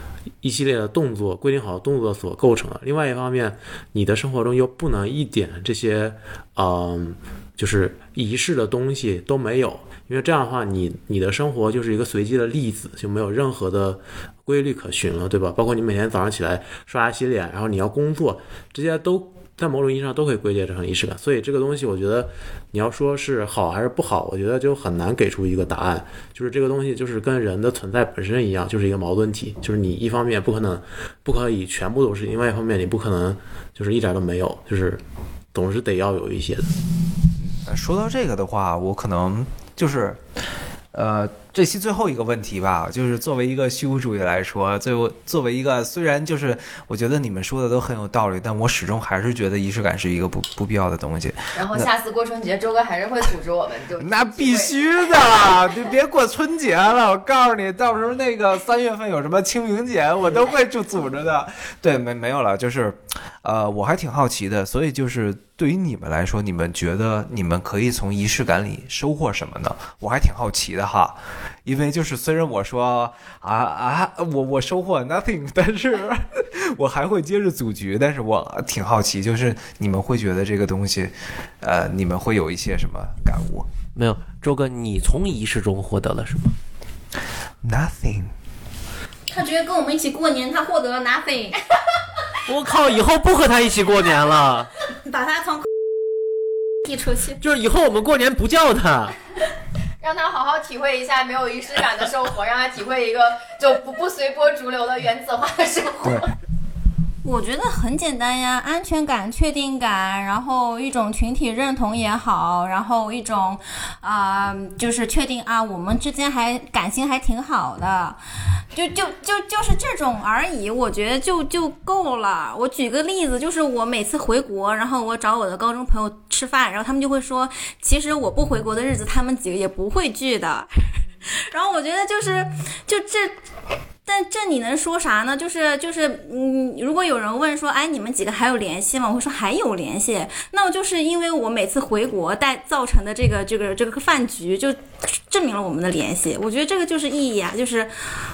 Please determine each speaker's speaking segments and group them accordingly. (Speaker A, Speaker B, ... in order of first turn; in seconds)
Speaker A: 0.4-35.0, 35.5-36.8
Speaker B: 37.6-40.2, 40.9-51.9, 54.0-83.7, 87.6-88.3
Speaker C: 51.5-54.7, 100.0-106.3
Speaker D: 83.9-86.5, 92.4-94.7, 97.4-99.2
Speaker E: 89.3-91.6, 95.0-95.7, 96.8-97.4, 107.2-118.2, 118.7-133.3, 134.1-147.9